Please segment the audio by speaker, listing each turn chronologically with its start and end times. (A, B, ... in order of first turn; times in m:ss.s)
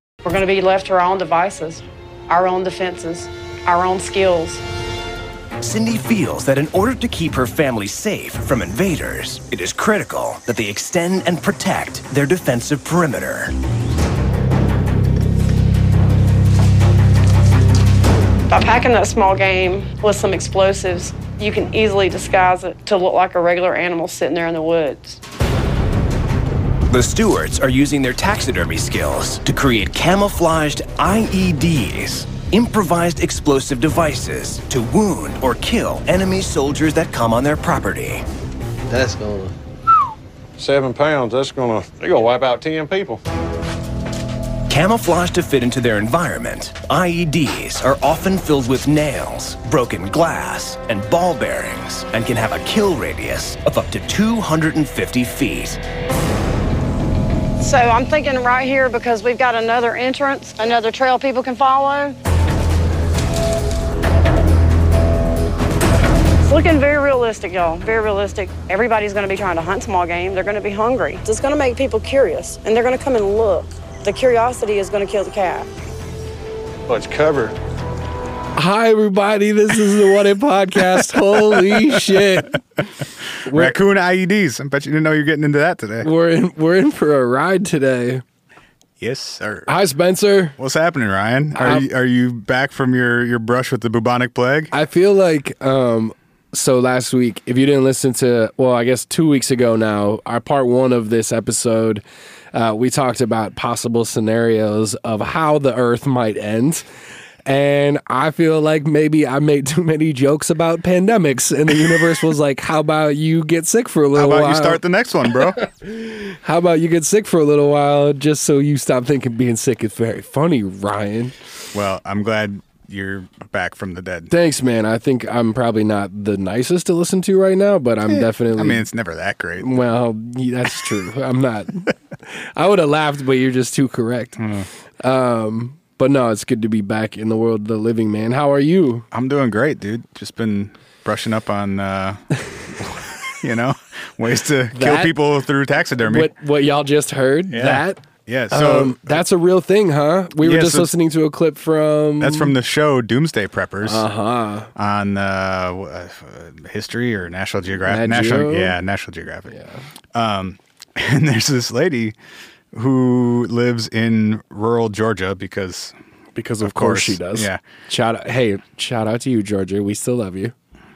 0:00.2-0:04.6 A
0:05.6-0:13.5 B
0:18.5-0:25.2 A
0:26.9-0:38.2 B
0:38.9-0:39.5 C
0:40.6-0:43.2 C
0:44.7-0:55.8 B
0:57.6-1:02.2 A
1:06.4-1:15.7 A
1:16.9-1:17.5 C
1:18.6-1:22.6 D
1:21.5-1:21.8 E
1:23.4-1:23.8 D
1:23.5-1:26.1 E
1:26.0-1:28.2 D
1:29.0-1:29.7 E
1:29.7-1:30.6 D
1:30.6-1:34.7 E
1:31.5-1:31.9 D
1:34.7-1:42.0 D
1:42.5-1:46.8 D
1:47.4-1:54.8 D
1:54.1-1:55.6 E
1:55.8-2:01.3 D
2:01.7-2:04.3 E
2:04.3-2:08.8 D
2:08.1-2:09.7 E
2:09.6-2:14.4 D
2:14.4-2:14.7 E
2:15.0-2:19.0 D
2:19.1-2:22.2 E
2:22.8-2:26.3 E
2:24.7-2:25.1 D
2:26.0-2:32.5 D
2:27.5-2:29.2 E
2:30.4-2:30.9 E
2:32.2-2:34.0 E
2:33.8-2:34.7 D
2:34.7-2:39.5 E
2:37.8-2:38.8 D
2:39.5-2:39.8 D
2:40.1-2:42.2 E
2:42.7-2:45.9 E
2:46.4-2:50.5 D
2:46.6-2:47.6 E